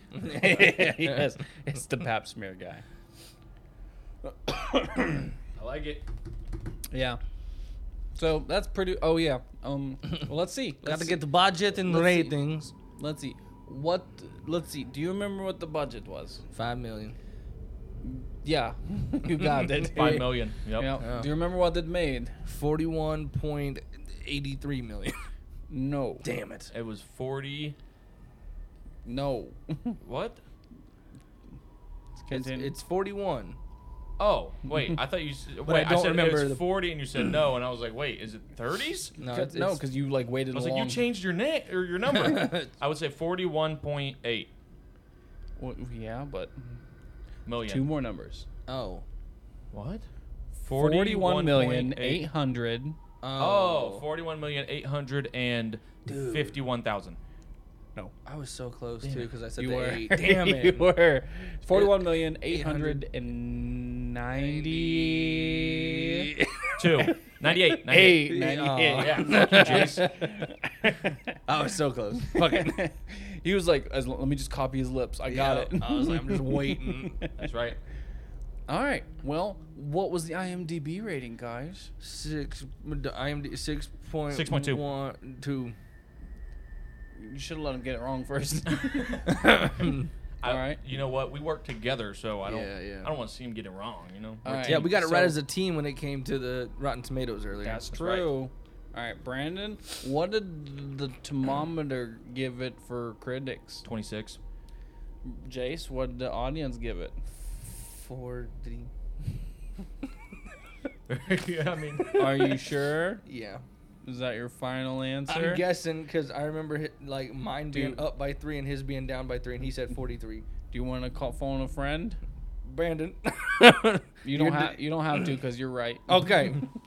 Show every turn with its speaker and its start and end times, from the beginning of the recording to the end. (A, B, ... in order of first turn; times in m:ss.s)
0:00.1-0:01.3 A
0:00.2-0:02.8 B
0:04.2-0:05.3 B
0:05.6-0:06.1 C
0:06.9-0:07.2 B
0:08.2-0:11.2 B
0:10.8-0:12.7 A
0:11.8-0:12.4 B
0:13.0-0:16.4 B
0:16.5-0:17.2 A
0:18.0-0:22.4 B
0:19.8-0:21.0 C
0:21.0-0:21.3 A
0:22.5-0:25.2 A
0:25.7-0:26.3 B
0:26.2-0:26.7 A
0:26.7-0:27.8 C
0:29.0-0:30.0 B
0:30.0-0:30.4 C
0:32.2-0:32.7 B
0:32.3-0:33.6 A
0:34.2-0:39.1 C
0:35.6-0:36.6 A
0:39.2-0:39.8 A
0:39.2-0:41.0 B
0:40.5-0:44.5 C
0:42.2-0:42.7 A
0:45.6-0:46.7 B
0:47.5-0:47.9 C
0:47.7-0:48.5 B
0:48.7-0:49.0 A
0:49.7-0:50.0 C
0:50.6-0:53.0 B
0:50.7-0:52.2 C
0:53.2-0:54.0 A
0:53.4-0:57.2 C
0:56.1-0:56.6 A
0:58.2-1:00.9 A
0:59.6-1:06.3 B
1:01.7-1:03.0 A
1:04.4-1:06.8 A
1:06.8-1:08.4 C
1:07.5-1:11.4 B
1:08.2-1:10.3 A
1:08.9-1:10.1 C
1:11.5-1:12.8 A
1:12.3-1:17.3 B
1:15.3-1:17.2 A
1:17.4-1:17.8 C
1:18.7-1:21.9 B
1:22.0-1:25.8 A
1:24.3-1:24.8 C
1:27.2-1:29.4 B
1:28.7-1:29.3 C
1:29.4-1:30.1 A
1:30.4-1:35.0 C
1:30.4-1:30.8 B
1:32.4-1:33.1 A
1:34.4-1:35.4 B
1:34.7-1:37.8 A
1:37.6-1:43.8 B
1:37.9-1:38.3 C
1:43.8-1:44.4 C
1:45.2-1:47.2 B
1:47.7-1:48.9 A
1:51.1-1:52.5 C
1:52.2-1:53.2 B
1:53.2-1:53.6 A
1:54.0-1:55.6 B
1:55.3-2:00.5 A
1:57.7-1:58.0 B
2:00.7-2:02.2 B
2:02.6-2:04.8 A
2:04.2-2:06.5 B
2:06.1-2:06.7 A